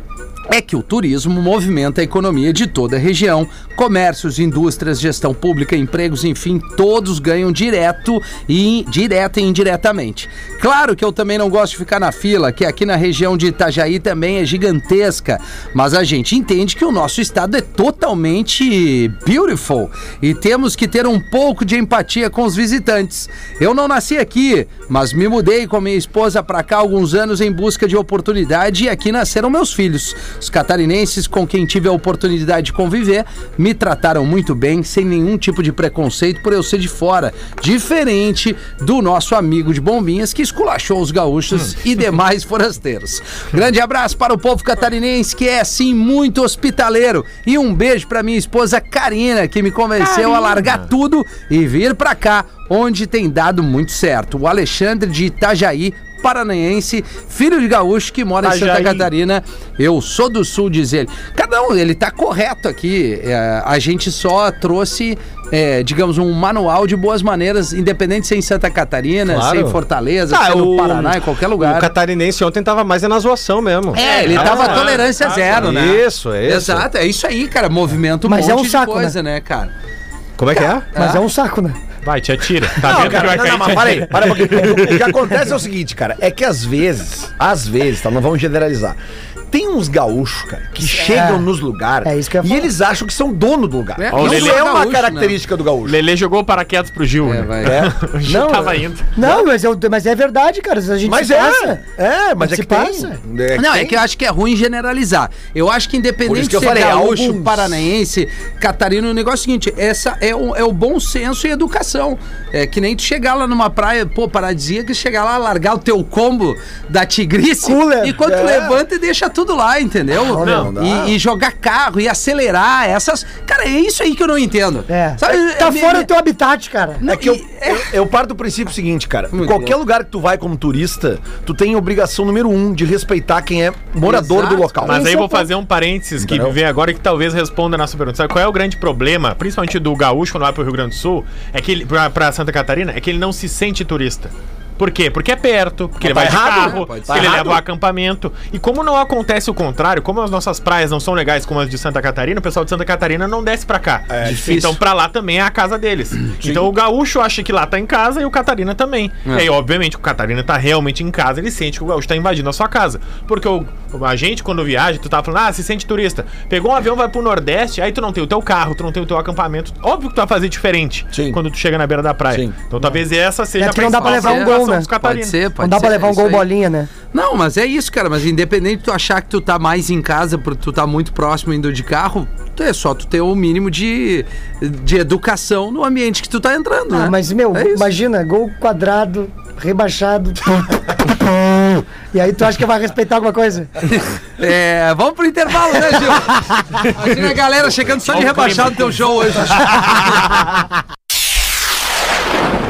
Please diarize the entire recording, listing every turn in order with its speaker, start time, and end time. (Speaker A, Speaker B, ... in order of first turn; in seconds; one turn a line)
Speaker A: 0.5-71.9
Speaker B: 50.1-50.7
Speaker B: 58.4-59.1
Speaker C: 69.2-76.9
Speaker A: 73.9-79.7
Speaker B: 74.0-75.6
Speaker D: 78.2-79.2
Speaker C: 80.4-80.9
Speaker A: 80.9-81.2
Speaker D: 80.9-81.8
Speaker B: 82.0-84.6
Speaker E: 82.8-89.0
Speaker E: 89.5-96.0
Speaker D: 90.9-91.5
Speaker D: 92.0-92.7
Speaker A: 94.0-95.3
Speaker B: 94.1-94.6
Speaker B: 95.8-99.1
Speaker A: 97.2-97.8
Speaker E: 97.6-99.5
Speaker D: 98.3-101.8
Speaker E: 101.0-104.0
Speaker D: 102.4-103.2
Speaker A: 103.5-126.1
Speaker E: 106.2-107.9
Speaker D: 117.6-118.2
Speaker E: 118.2-118.8
Speaker D: 120.3-120.7
Speaker E: 120.4-121.1
Speaker B: 120.4-120.7
Speaker D: 124.9-127.0
Speaker A: 127.0-128.0
Speaker E: 127.0-135.0
Speaker A: 129.3-129.8
Speaker A: 134.0-134.9
Speaker D: 134.8-135.5
Speaker B: 134.8-175.4
Speaker E: 136.2-136.6
Speaker E: 146.0-147.6
Speaker A: 146.4-147.4
Speaker E: 154.1-154.8
Speaker A: 154.3-154.6
Speaker E: 171.1-171.4
Speaker E: 172.3-172.6
Speaker D: 173.6-174.9
Speaker A: 173.9-176.5
Speaker D: 175.6-176.9
Speaker A: 177.1-187.9
Speaker D: 186.9-193.8
Speaker A: 193.8-200.2
Speaker B: 198.1-200.3